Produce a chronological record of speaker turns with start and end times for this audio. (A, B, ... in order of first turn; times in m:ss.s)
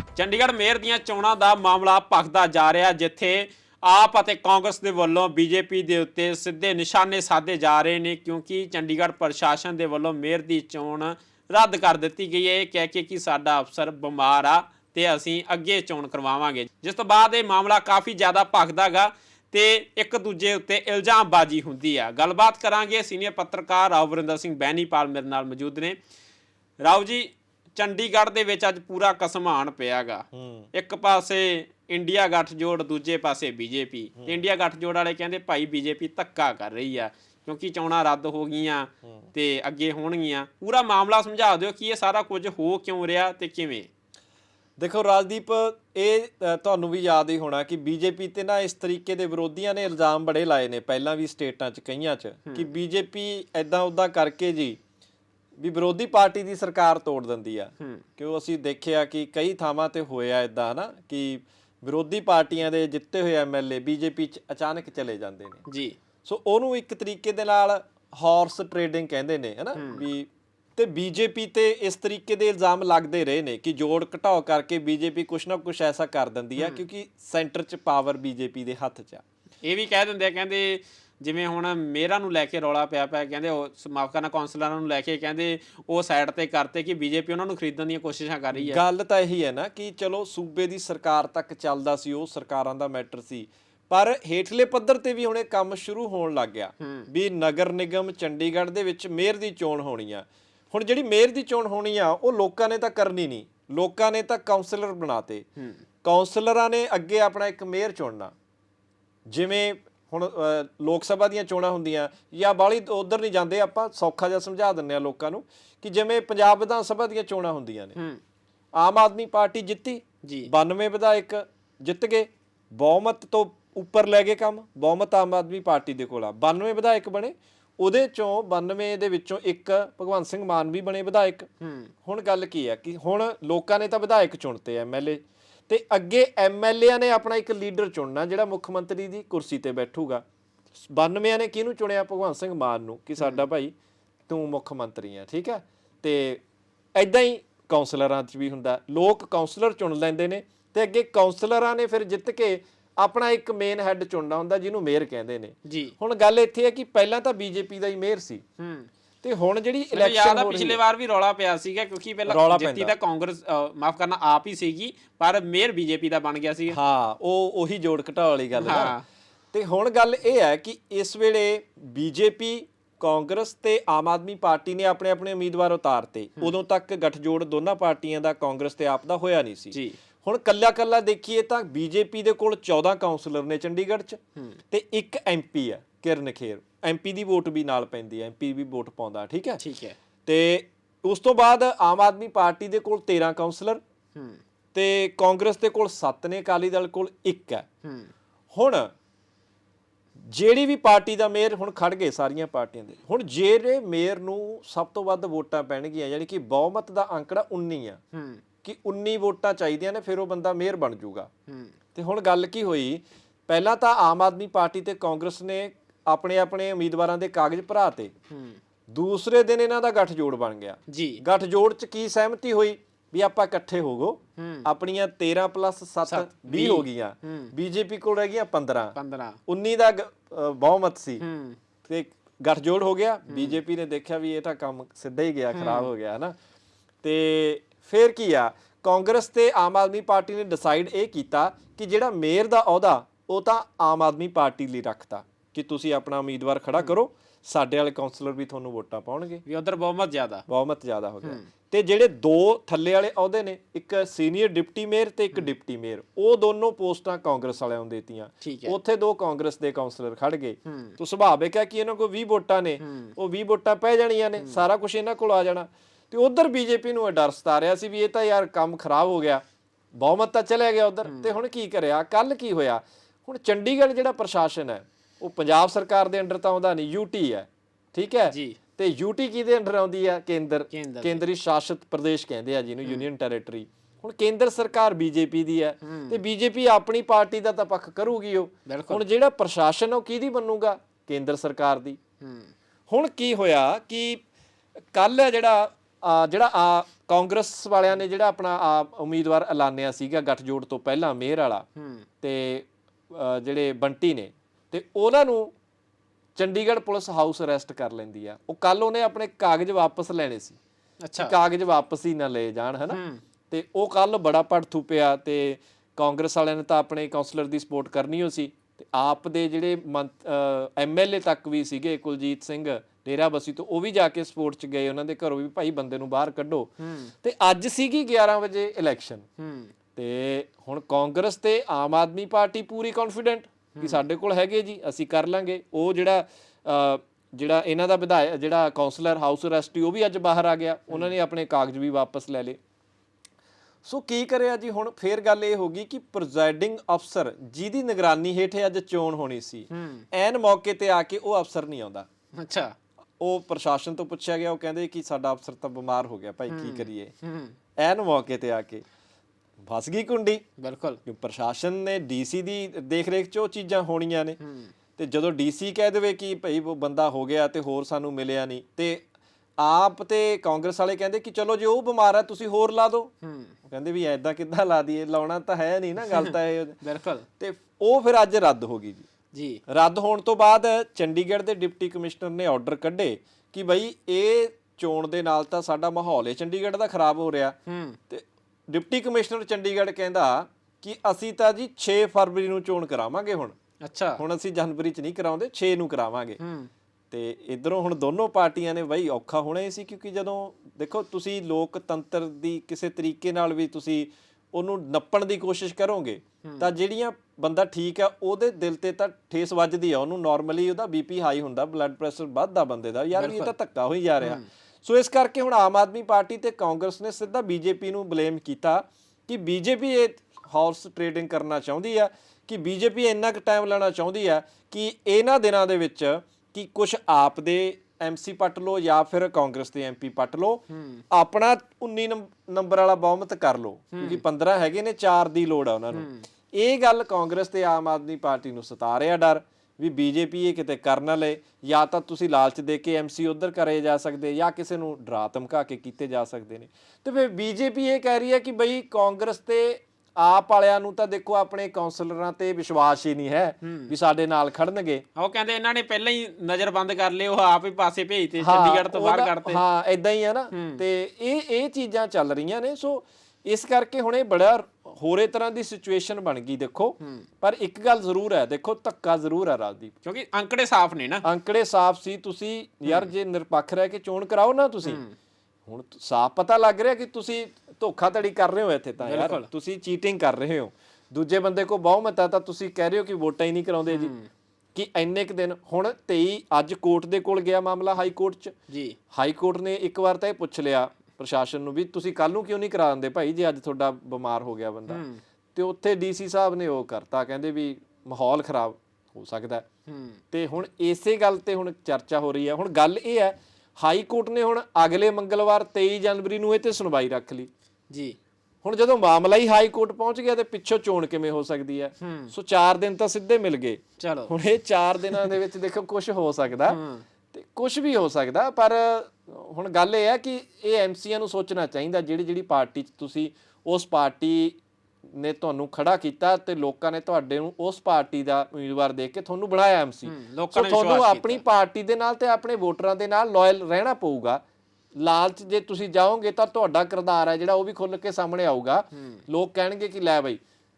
0:00.2-0:26.0 A
0:26.8-0:43.9 A
0:30.3-0:30.7 B
0:44.8-0:54.8 B
0:55.6-1:05.6 B
1:05.6-1:06.0 A
1:06.2-1:19.2 B
1:09.7-1:10.0 A
1:16.6-1:16.8 A
1:19.6-1:28.8 A
1:28.5-1:45.4 B
1:36.8-1:37.1 A
1:45.6-1:45.8 A
1:46.0-1:48.3 B
1:49.3-1:58.0 B
1:58.8-2:11.5 B
2:00.2-2:00.5 A
2:11.6-2:11.9 A
2:12.0-2:20.2 B
2:20.9-2:23.7 B
2:24.3-2:26.4 B
2:27.0-2:38.4 B
2:35.6-2:35.9 A
2:38.6-2:38.9 A
2:39.2-2:40.8 B
2:39.9-2:46.8 A
2:42.3-2:42.9 B
2:46.7-2:48.9 B
2:48.6-2:49.0 A
2:49.5-3:04.2 B
2:59.7-3:00.0 A
3:04.7-3:09.6 B
3:09.6-3:10.0 A
3:10.2-3:13.8 B
3:14.1-3:14.4 A
3:14.7-3:17.7 B
3:17.8-3:18.1 A
3:18.5-3:18.9 B
3:20.2-3:28.0 B
3:28.1-3:28.4 A
3:28.6-3:31.3 B
3:31.5-3:31.7 A
3:31.9-3:38.1 B
3:38.3-3:38.6 A
3:38.9-3:49.0 B
3:40.9-3:41.2 A
3:44.4-3:44.7 A
3:46.0-3:47.5 A
3:48.9-3:49.4 A
3:49.5-3:51.2 B
3:51.2-3:51.6 A
3:51.8-3:56.3 B
3:53.3-3:53.6 A
3:55.5-3:55.9 A
3:57.0-4:09.4 B
4:09.4-4:10.4 A
4:10.5-4:29.4 B
4:18.4-4:18.8 A
4:20.6-4:21.0 A
4:22.8-4:23.1 A
4:30.0-4:52.0 B
4:31.0-4:31.3 A
4:38.3-4:38.6 A
4:40.7-4:41.2 A
4:45.8-4:46.2 A
4:48.6-4:49.0 A
4:52.2-4:52.5 A
4:52.9-4:54.2 B
4:54.9-5:01.7 B
5:01.8-5:02.1 A
5:02.2-5:05.5 B
5:06.4-5:10.6 B
5:11.0-5:11.3 A
5:11.2-5:29.3 B
5:12.9-5:13.2 A
5:26.8-5:27.1 A
5:29.4-5:29.7 A
5:29.9-5:42.6 B
5:33.7-5:34.0 A
5:43.8-5:52.1 B
5:49.7-5:50.1 A
5:52.4-5:52.7 A
5:53.2-5:57.1 B
5:56.5-5:57.5 A
5:57.8-5:58.8 B
5:59.6-6:00.4 B
6:00.6-6:01.0 A
6:01.0-6:04.4 B
6:04.4-6:04.7 A
6:05.0-6:09.0 B
6:09.6-6:13.1 B
6:13.2-6:13.6 A
6:13.7-6:16.8 B
6:16.0-6:17.2 A
6:17.4-6:19.0 B
6:19.3-6:19.6 A
6:19.7-6:27.6 B
6:27.6-6:28.0 A
6:28.1-6:33.6 B
6:33.8-6:34.2 A
6:34.2-6:36.4 B
6:36.4-6:36.7 A
6:37.1-7:35.0 B
6:46.4-6:46.7 A
6:53.1-6:53.5 A
6:54.2-6:54.4 A
7:10.7-7:11.0 A
7:13.9-7:14.2 A
7:15.9-7:16.2 A
7:33.6-7:33.9 A
7:35.1-7:39.6 A
7:38.4-7:49.9 B
7:40.5-7:40.8 A
7:50.0-7:51.2 A
7:51.2-7:55.0 B
7:54.8-7:55.2 A
7:55.7-8:04.1 B
7:59.0-7:59.5 A
8:03.9-8:04.3 A
8:04.7-8:08.5 B
8:08.7-8:09.0 A
8:09.1-8:15.0 B
8:14.9-8:15.2 A
8:15.5-8:19.6 B
8:19.9-8:20.2 A
8:20.3-8:27.5 B
8:27.9-8:28.2 A
8:28.6-8:36.8 B
8:32.0-8:32.3 A
8:34.0-8:34.3 A
8:36.7-8:37.0 A
8:37.3-8:44.6 B
8:45.1-8:54.4 B
8:50.0-8:51.4 A
8:55.0-9:00.4 B
8:58.9-8:59.2 A